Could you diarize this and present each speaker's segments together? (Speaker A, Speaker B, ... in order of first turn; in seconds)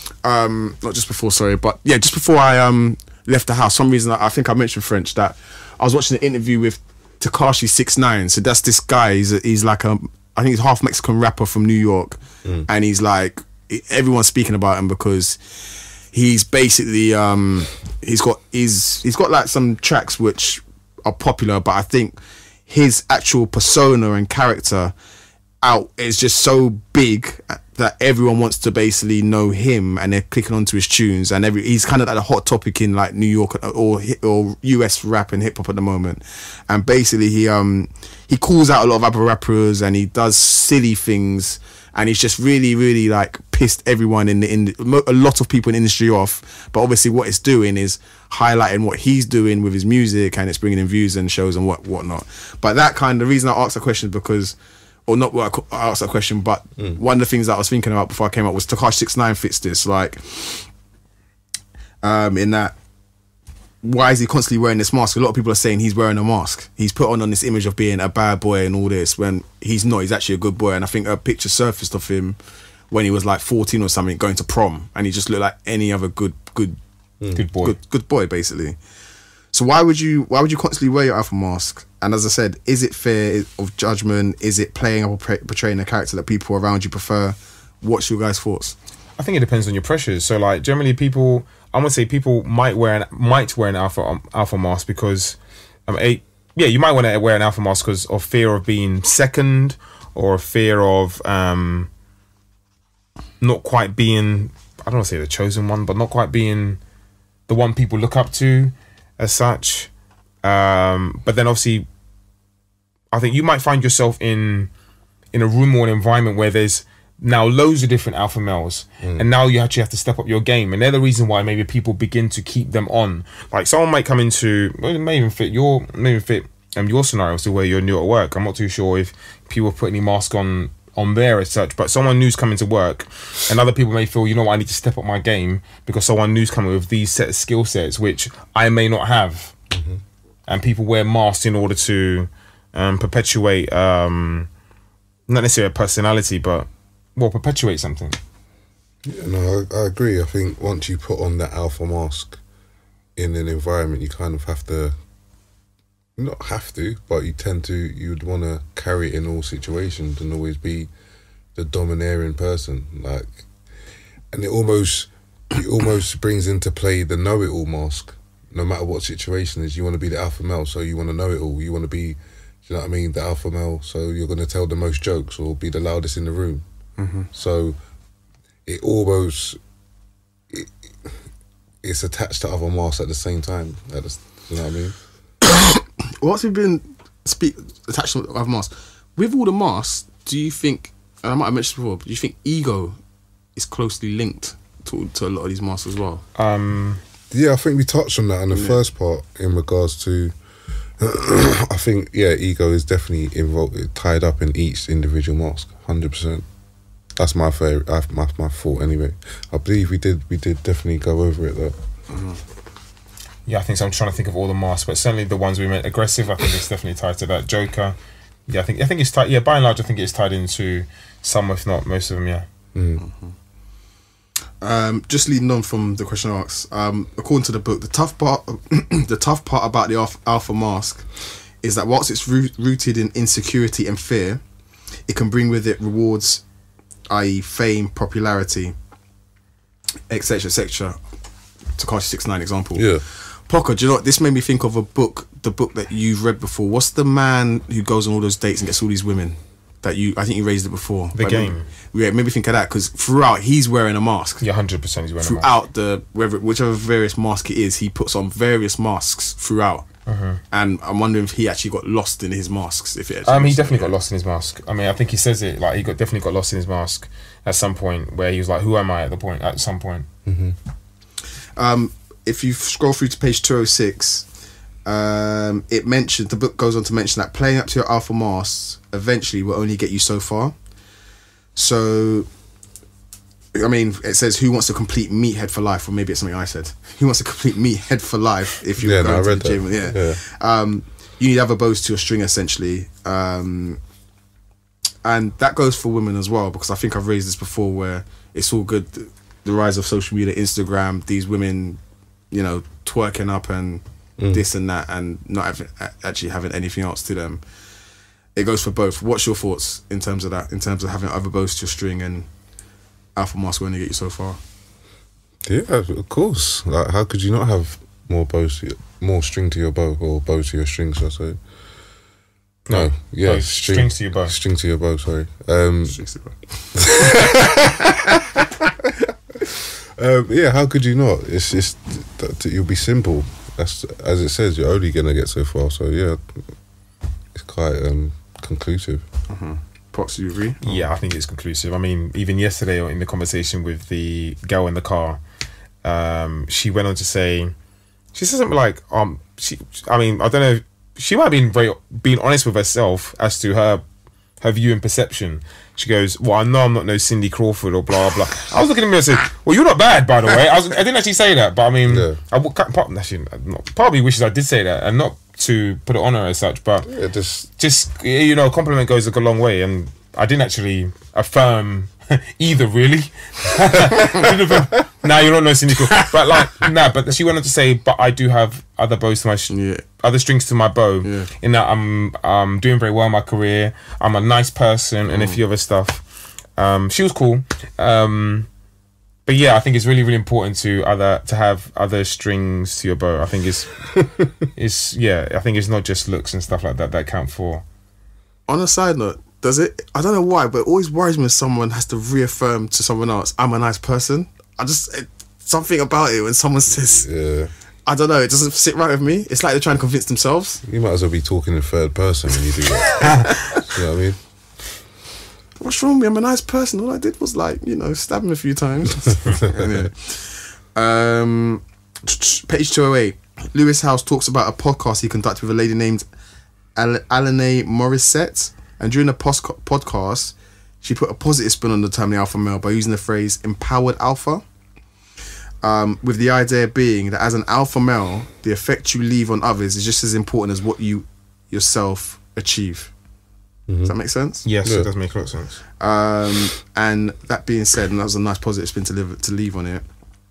Speaker A: 0.2-24.9, 25.6-60.7, 62.0-62.8, 63.8-72.4, 72.9-76.8, 77.6-78.8, 79.5-88.8, 177.0-177.3, 185.5-193.0, 193.6-196.2, 198.5-198.8, 212.1-212.4, 223.0-223.3, 224.6-231.1, 231.6-234.4, 235.1-236.4, 237.1-238.8, 240.1-241.0, 241.8-254.4, 255.2-259.9, 260.5-263.9, 271.6-274.3, 274.9-280.6, 281.6-282.3, 283.5-293.8, 295.0-301.8, 302.3-307.4, 308.4-312.3, 313.2-314.4, 325.9-327.0, 339.3-340.7, 379.5-379.9, 381.0-381.3, 385.1-385.4, 398.5-407.1, 407.9-410.6, 413.0-413.4, 415.6-426.1, 426.8-434.4, 435.6-442.9, 443.8-444.5, 445.8-449.9
Speaker B: 77.3-77.8, 89.2-95.4, 95.9-101.9, 103.4-106.8, 107.5-109.9, 110.4-111.9, 113.1-114.7, 115.3-139.5, 140.5-144.5, 145.3-148.2, 196.4-197.0, 213.5-218.0, 218.5-222.4, 251.2-251.7, 254.4-255.5, 260.1-260.4, 263.2-270.1, 322.7-324.3, 340.6-345.2, 345.8-347.5, 348.1-353.8, 354.4-366.9, 367.6-386.1, 386.6-388.5, 389.3-397.6, 444.4-445.6
Speaker C: 119.0-119.3, 139.7-140.0, 149.1-152.4, 153.2-154.9, 156.2-160.9, 161.6-163.5, 164.3-176.7, 177.3-177.8, 178.7-179.6, 180.5-181.1, 181.8-185.0, 197.3-200.3, 201.0-206.4, 207.2-211.8, 222.8-223.0, 242.8-243.0, 270.3-270.6, 288.8-290.2, 315.4-321.4, 322.7-326.1, 329.8-336.4, 337.3-339.1, 361.9-362.2, 366.9-367.5, 406.9-407.5, 410.6-414.2, 443.7-443.9, 444.6-444.9